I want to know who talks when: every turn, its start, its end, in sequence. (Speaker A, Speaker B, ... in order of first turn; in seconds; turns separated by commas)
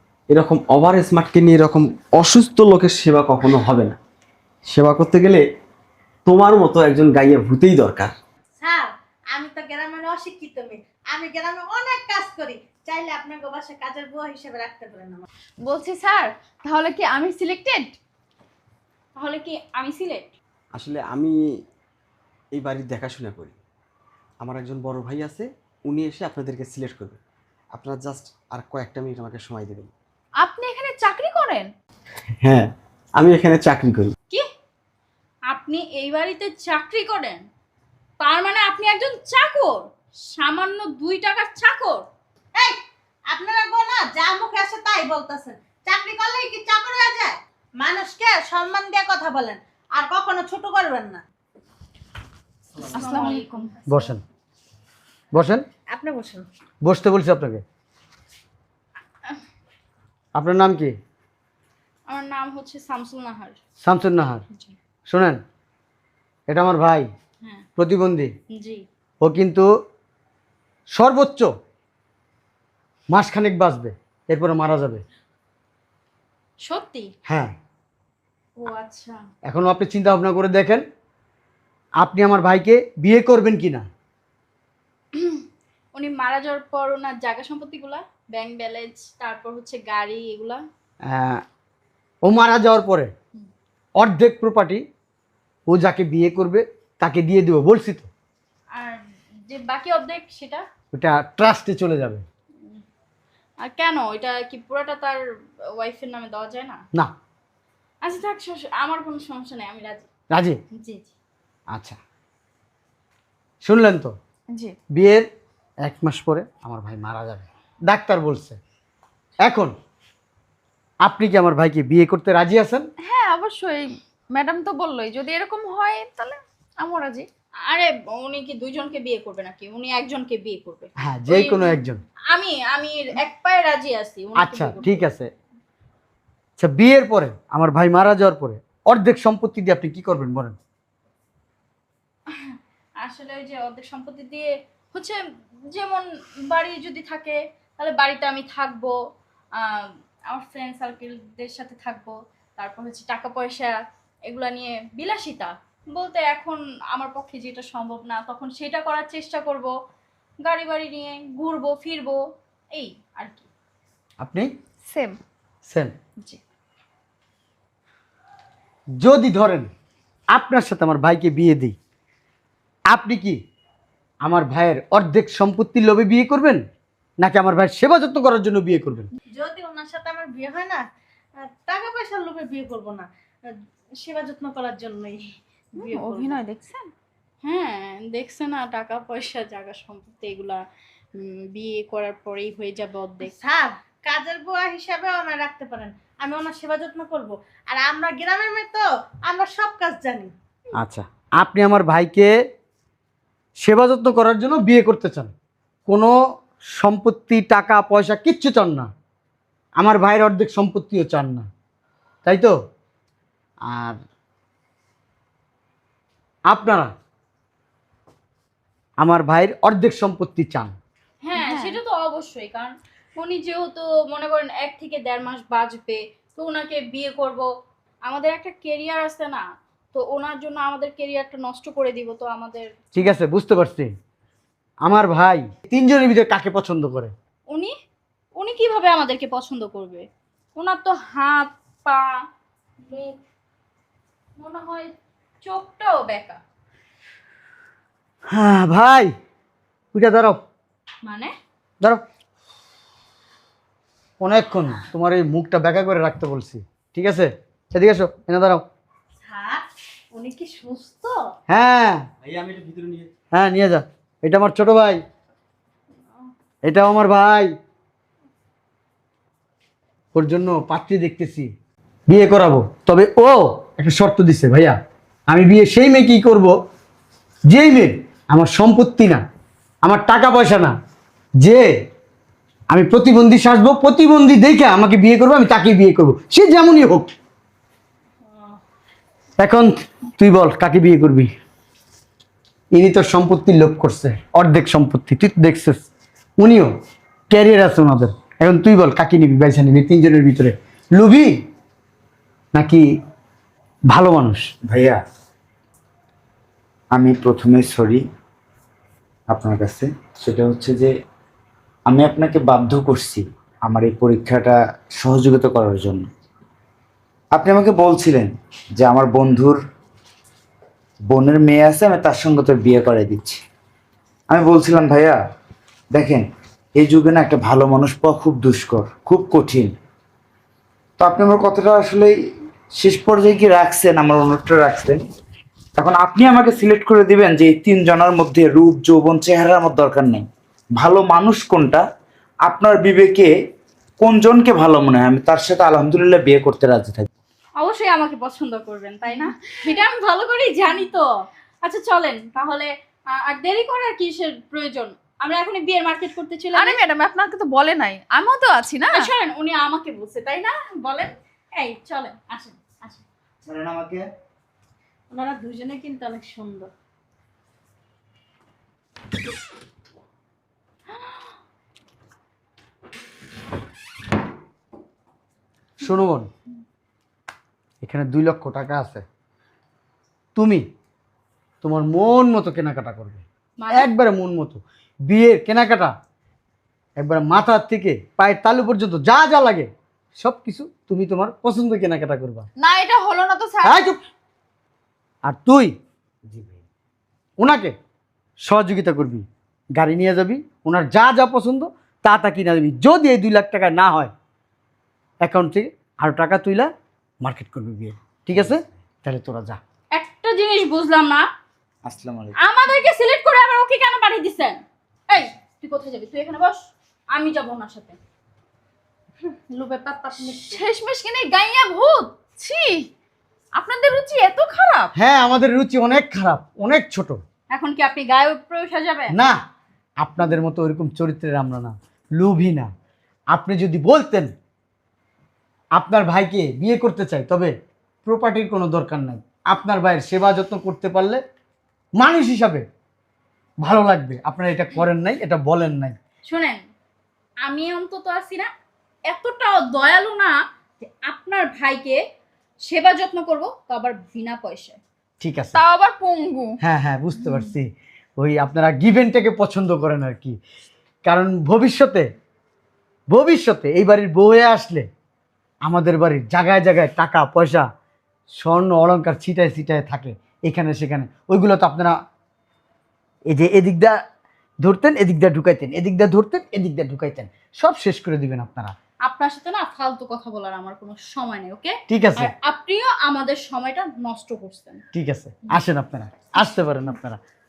Speaker A: 0.3-4.0, Speaker A: 4.7-5.4, Speaker A: 6.3-8.2, Speaker B: 8.6-15.3, Speaker C: 15.7-18.0, Speaker D: 19.2-20.3, Speaker A: 20.8-21.4, Speaker A: 22.6-23.6, Speaker A: 24.4-27.2, Speaker A: 27.8-29.9, Speaker C: 30.4-31.7, Speaker A: 32.4-34.1, Speaker D: 35.5-37.4, Speaker D: 38.2-42.1, Speaker B: 43.3-51.2, Speaker C: 52.9-53.8, Speaker D: 52.9-54.1, Speaker E: 53.9-54.2, Speaker E: 55.3-55.6, Speaker B: 55.9-56.5, Speaker E: 56.9-57.6, Speaker E: 60.4-60.9, Speaker D: 62.1-63.6, Speaker E: 63.8-64.4, Speaker E: 65.1-65.4, Speaker E: 66.5-67.1, Speaker E: 67.8-68.3, Speaker D: 68.5-68.8, Speaker E: 69.2-69.7, Speaker E: 71.0-71.5, Speaker E: 73.1-75.0, Speaker D: 76.6-77.1, Speaker E: 77.3-77.5, Speaker D: 78.6-79.2, Speaker E: 79.5-80.8, Speaker E: 82.0-83.9, Speaker D: 85.2-85.4, Speaker D: 86.0-90.6, Speaker E: 91.0-91.4, Speaker E: 92.2-93.1, Speaker E: 94.0-94.8, Speaker E: 95.7-98.1, Speaker D: 98.8-100.7, Speaker E: 100.9-102.2, Speaker D: 103.6-105.2, Speaker D: 105.8-106.8, Speaker D: 108.0-110.1, Speaker E: 110.3-110.6, Speaker D: 110.7-111.1, Speaker E: 111.7-112.0, Speaker E: 113.6-114.1, Speaker E: 114.9-115.3, Speaker E: 115.8-118.6, Speaker E: 119.4-119.7, Speaker E: 121.0-122.9, Speaker C: 123.0-127.3, Speaker D: 127.7-131.8, Speaker E: 131.0-132.0, Speaker D: 132.3-135.1, Speaker E: 134.4-135.3, Speaker E: 136.6-140.6, Speaker D: 142.4-148.9, Speaker D: 149.6-159.7, Speaker D: 160.4-162.2, Speaker D: 162.7-163.5, Speaker E: 164.2-164.5, Speaker C: 164.9-165.2, Speaker E: 165.7-165.9, Speaker E: 169.0-169.7, Speaker E: 170.3-171.8, Speaker E: 172.9-173.4, Speaker E: 174.2-176.6, Speaker E: 177.2-179.1, Speaker B: 179.4-180.8, Speaker B: 181.4-183.1, Speaker B: 184.0-185.2, Speaker C: 185.8-186.9, Speaker B: 185.8-186.4, Speaker D: 187.4-190.7, Speaker D: 191.2-193.3, Speaker B: 193.2-200.3, Speaker E: 200.8-202.3, Speaker E: 203.6-205.3, Speaker E: 205.9-206.1, Speaker E: 206.7-208.9, Speaker E: 209.8-211.5, Speaker E: 212.2-212.6, Speaker E: 213.7-214.0, Speaker E: 216.5-216.9, Speaker E: 219.0-220.8, Speaker D: 221.2-227.5, Speaker C: 221.4-221.8, Speaker D: 228.1-232.7, Speaker E: 232.9-233.9, Speaker E: 234.8-237.1, Speaker D: 238.4-242.2, Speaker D: 242.8-243.2, Speaker D: 244.4-246.4, Speaker E: 248.3-249.1, Speaker E: 249.9-250.4, Speaker D: 251.0-251.3, Speaker E: 254.2-258.6, Speaker B: 259.2-261.1, Speaker E: 261.5-262.1, Speaker A: 262.2-263.1, Speaker E: 263.3-265.0, Speaker E: 266.6-267.5, Speaker E: 270.1-271.5, Speaker E: 272.1-274.8, Speaker E: 275.3-276.6, Speaker E: 277.5-279.2, Speaker E: 279.8-280.8, Speaker E: 281.4-281.7, Speaker E: 282.7-287.1, Speaker E: 289.4-291.3, Speaker E: 292.7-295.8, Speaker E: 296.4-296.7, Speaker E: 297.3-301.4, Speaker E: 302.5-302.9, Speaker E: 303.9-304.5, Speaker F: 304.6-305.0, Speaker F: 306.9-308.0, Speaker F: 309.3-310.9, Speaker F: 311.9-316.1, Speaker F: 317.4-319.6, Speaker F: 321.1-323.4, Speaker F: 324.3-325.2, Speaker F: 325.9-329.7, Speaker F: 331.0-332.1, Speaker F: 332.8-335.0, Speaker F: 335.8-340.2, Speaker F: 340.8-341.8, Speaker F: 342.5-343.3, Speaker F: 344.0-347.1, Speaker D: 347.6-356.8, Speaker C: 356.5-359.1, Speaker D: 358.9-363.0, Speaker F: 363.4-364.0, Speaker B: 365.1-366.7, Speaker E: 375.8-376.3, Speaker E: 377.8-379.1, Speaker E: 380.4-380.6, Speaker E: 381.6-385.9, Speaker D: 383.6-383.9, Speaker E: 387.0-392.5, Speaker C: 392.6-393.9, Speaker E: 393.6-394.0, Speaker E: 395.3-395.8, Speaker E: 397.4-397.7, Speaker E: 398.5-399.2, Speaker E: 399.8-404.1, Speaker E: 405.2-406.7, Speaker E: 407.2-409.6, Speaker D: 409.9-411.3, Speaker F: 411.9-412.4, Speaker D: 412.4-418.0, Speaker B: 419.6-420.0, Speaker D: 419.7-420.4, Speaker C: 420.3-422.9, Speaker C: 423.6-424.9, Speaker E: 425.0-427.2, Speaker D: 427.5-429.2, Speaker E: 429.1-429.4, Speaker E: 430.0-432.7, Speaker E: 433.3-434.3, Speaker E: 435.8-437.5, Speaker E: 438.1-441.2, Speaker E: 442.0-442.6, Speaker E: 443.6-446.0, Speaker D: 446.3-446.6, Speaker D: 447.4-448.5, Speaker D: 449.1-452.0, Speaker D: 452.6-454.8, Speaker E: 455.2-455.6, Speaker C: 455.6-456.5, Speaker E: 456.6-460.4, Speaker E: 461.1-462.1, Speaker E: 463.1-464.9, Speaker E: 465.6-467.7, Speaker E: 468.4-472.0, Speaker E: 473.3-474.0, Speaker E: 474.6-478.7, Speaker D: 479.0-484.8, Speaker E: 481.9-482.3, Speaker E: 484.9-487.2